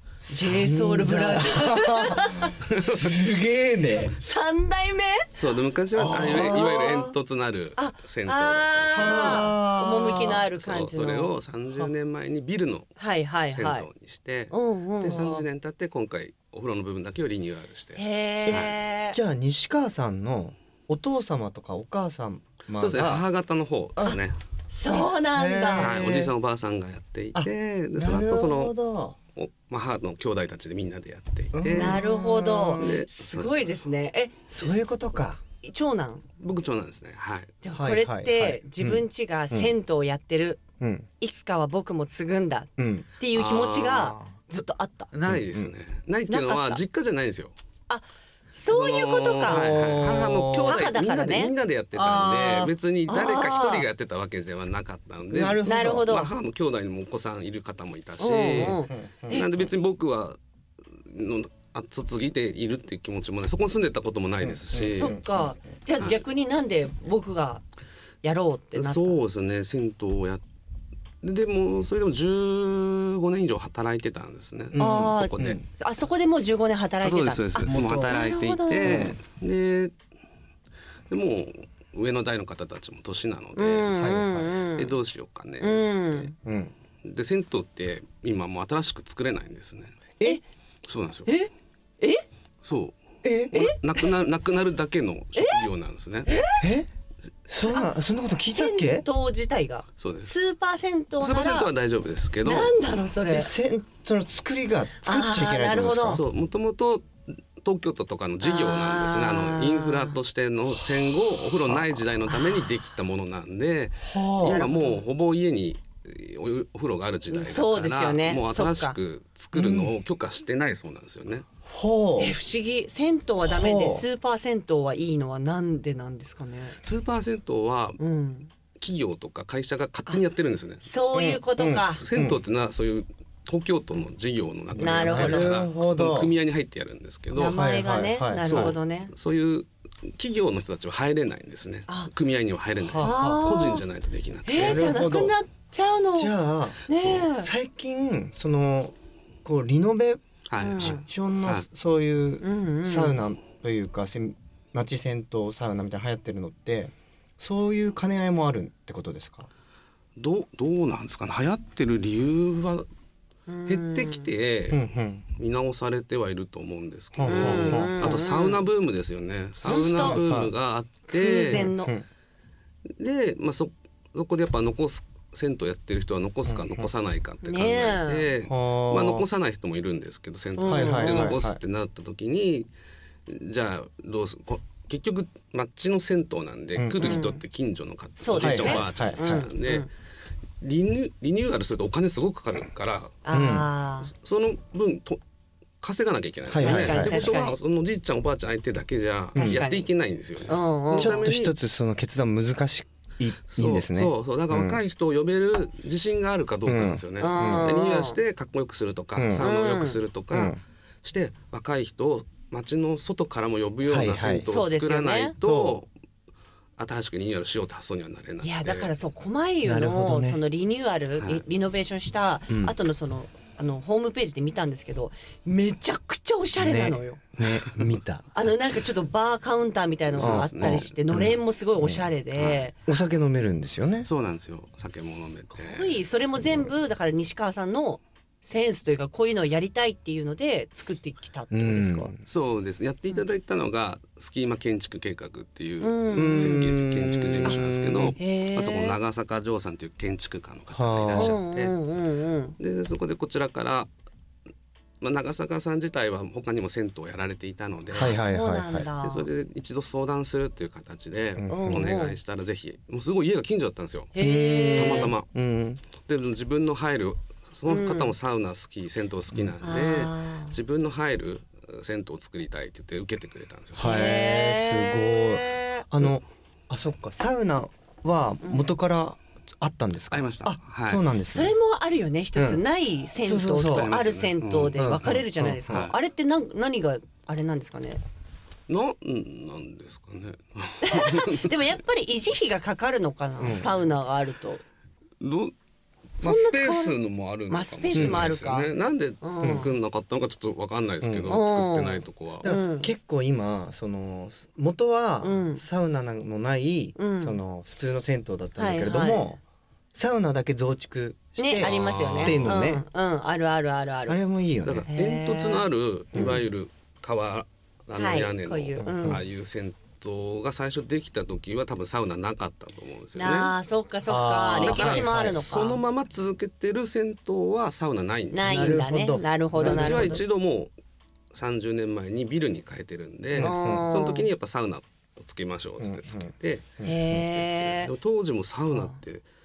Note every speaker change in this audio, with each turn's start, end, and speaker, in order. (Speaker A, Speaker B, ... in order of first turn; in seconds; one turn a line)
Speaker A: 0.2-4.1
Speaker B: 0.3-2.5
Speaker C: 2.6-3.3
Speaker B: 4.2-5.3
Speaker C: 5.3-9.5
Speaker A: 6.0-7.1
Speaker B: 6.1-6.8
Speaker B: 7.8-11.3
Speaker A: 8.9-10.4
Speaker C: 10.6-12.9
Speaker B: 13.0-13.9
Speaker C: 13.5-18.8
Speaker B: 14.5-15.4
Speaker B: 17.9-19.2
Speaker A: 18.5-23.2
Speaker C: 22.8-24.4
Speaker B: 24.7-25.9
Speaker A: 24.9-26.3
Speaker C: 25.8-28.7
Speaker A: 27.3-29.1
Speaker C: 29.4-32.0
Speaker A: 31.5-32.9
Speaker B: 31.7-34.8
Speaker C: 32.8-33.7
Speaker A: 34.5-35.4
Speaker B: 35.6-36.2
Speaker C: 36.4-37.6
Speaker B: 37.6-40.6
Speaker A: 37.7-39.7
Speaker A: 40.8-41.1
Speaker B: 41.2-42.7
Speaker A: 42.8-43.1
Speaker B: 43.2-45.1
Speaker C: 43.3-44.1
Speaker C: 45.1-47.5
Speaker A: 45.2-45.7
Speaker B: 46.3-46.8
Speaker B: 47.9-50.1
Speaker C: 48.7-60.4
Speaker A: 49.4-50.9
Speaker B: 50.6-51.5
Speaker A: 51.9-52.7
Speaker B: 53.1-53.9
Speaker A: 55.3-56.2
Speaker B: 55.6-56.3
Speaker B: 58.2-59.6
Speaker A: 58.6-59.4
Speaker C: 61.0-65.2
Speaker A: 64.4-65.5
Speaker B: 64.9-67.6
Speaker B: 68.2-69.2
Speaker C: 68.7-70.4
Speaker C: 71.2-75.6
Speaker A: 74.7-75.6
Speaker B: 74.8-79.1
Speaker C: 77.0-79.9
Speaker A: 77.7-78.2
Speaker A: 78.8-79.2
Speaker C: 81.1-84.0
Speaker B: 83.5-84.9
Speaker A: 84.0-84.4
Speaker C: 84.7-86.3
Speaker B: 85.6-86.3
Speaker A: 86.4-86.7
Speaker C: 87.0-90.0
Speaker C: 90.9-91.3
Speaker B: 91.3-92.2
Speaker C: 92.6-93.0
Speaker A: 93.2-93.6
Speaker C: 93.5-96.3
Speaker B: 95.3-95.6
Speaker B: 96.3-96.6
Speaker A: 96.6-96.9
Speaker A: 97.5-99.0
Speaker B: 97.7-97.9
Speaker B: 98.5-101.7
Speaker C: 100.0-100.3
Speaker C: 101.2-102.7
Speaker B: 102.4-103.5
Speaker A: 103.3-106.2
Speaker B: 105.0-106.2
Speaker C: 106.1-121.5
Speaker B: 108.4-110.1
Speaker A: 114.0-114.6
Speaker B: 114.4-115.0
Speaker B: 117.3-119.0
Speaker A: 119.5-119.9
Speaker A: 121.7-122.3
Speaker B: 122.2-126.8
Speaker A: 123.4-124.0
Speaker C: 126.8-128.0
Speaker B: 128.0-128.5
Speaker C: 128.8-130.9
Speaker B: 130.8-132.0
Speaker A: 131.1-132.4
Speaker C: 132.0-137.6
Speaker A: 134.7-136.3
Speaker B: 134.8-135.6
Speaker B: 137.3-139.1
Speaker A: 137.4-138.8
Speaker C: 138.4-145.0
Speaker A: 142.8-143.4
Speaker B: 143.0-143.8
Speaker B: 144.4-146.3
Speaker A: 144.6-145.3
Speaker A: 146.1-150.2
Speaker B: 146.9-147.5
Speaker C: 150.5-151.6
Speaker B: 150.6-151.0
Speaker A: 150.8-159.5
Speaker B: 152.4-153.2
Speaker C: 160.2-162.9
Speaker B: 163.5-164.3
Speaker C: 163.7-171.7
Speaker A: 164.7-165.2
Speaker A: 167.2-168.2
Speaker B: 167.2-168.6
Speaker B: 169.7-170.2
Speaker A: 169.7-170.5
Speaker B: 171.1-171.9
Speaker A: 171.5-172.0
Speaker C: 173.0-182.7
Speaker A: 176.5-176.8
Speaker B: 177.4-178.3
Speaker A: 178.4-179.2
Speaker B: 180.6-181.3
Speaker A: 180.7-181.6
Speaker C: 183.3-189.9
Speaker A: 186.8-187.2
Speaker B: 187.0-187.4
Speaker B: 188.2-189.9
Speaker A: 188.4-189.4
Speaker C: 190.6-193.2
Speaker B: 193.2-194.1
Speaker A: 193.3-193.7
Speaker C: 194.0-195.2
Speaker C: 195.8-201.5
Speaker A: 196.5-197.3
Speaker B: 196.6-197.6
Speaker A: 199.3-199.6
Speaker B: 199.3-199.9
Speaker B: 200.5-201.3
Speaker A: 201.0-204.8
Speaker C: 203.5-215.9
Speaker A: 206.7-207.7
Speaker B: 207.2-208.2
Speaker A: 209.2-209.4
Speaker B: 209.4-210.0
Speaker A: 210.3-210.6
Speaker A: 213.9-214.5
Speaker B: 214.5-215.3
Speaker A: 215.4-215.8
Speaker C: 216.8-218.9
Speaker B: 218.4-227.2
Speaker A: 219.6-220.4
Speaker A: 222.5-222.7
Speaker A: 226.6-228.5
Speaker B: 228.3-232.8
Speaker C: 230.1-230.9
Speaker A: 230.2-234.1
Speaker C: 234.0-236.0
Speaker B: 235.5-242.1
Speaker A: 241.5-242.2
Speaker C: 242.2-251.7
Speaker B: 245.8-246.6
Speaker A: 246.1-248.2
Speaker B: 248.2-249.0
Speaker A: 250.7-251.3
Speaker B: 251.1-252.5
Speaker C: 252.6-253.9
Speaker C: 255.0-258.2
Speaker B: 257.9-259.2
Speaker A: 257.9-258.9
Speaker C: 259.0-264.1
Speaker A: 261.4-261.9
Speaker B: 261.5-262.1
Speaker B: 264.1-265.1
Speaker A: 264.2-265.8
Speaker C: 264.7-265.3
Speaker C: 266.0-274.0
Speaker B: 267.7-268.1
Speaker B: 269.6-270.5
Speaker A: 273.8-281.6
Speaker B: 273.8-275.9
Speaker B: 278.4-278.7
Speaker C: 280.1-281.0
Speaker B: 281.3-288.0
Speaker A: 282.4-282.6
Speaker A: 283.2-283.9
Speaker C: 283.6-285.9
Speaker A: 284.7-285.8
Speaker C: 288.7-291.5
Speaker B: 290.8-294.6
Speaker A: 293.4-293.7
Speaker C: 295.2-295.5
Speaker C: 296.2-302.5
Speaker B: 296.2-296.9
Speaker B: 297.5-299.7
Speaker A: 297.9-298.3
Speaker A: 299.4-299.7
Speaker A: 301.0-301.3
Speaker B: 301.3-302.9
Speaker A: 302.4-309.4
Speaker B: 305.2-305.6
Speaker B: 307.0-307.4
Speaker B: 308.6-309.3
Speaker A: 309.9-312.8
Speaker B: 311.4-314.2
Speaker C: 311.6-312.6
Speaker A: 314.1-314.9
Speaker C: 314.6-323.5
Speaker B: 314.9-316.4
Speaker B: 317.9-319.2
Speaker A: 318.8-319.2
Speaker B: 323.1-325.8
Speaker A: 324.1-325.4
Speaker C: 324.6-328.8
Speaker B: 328.3-330.2
Speaker A: 328.4-330.2
Speaker C: 329.6-330.7
Speaker C: 331.3-339.2
Speaker A: 333.3-333.9
Speaker B: 333.4-334.3
Speaker A: 335.8-337.1
Speaker B: 336.8-337.9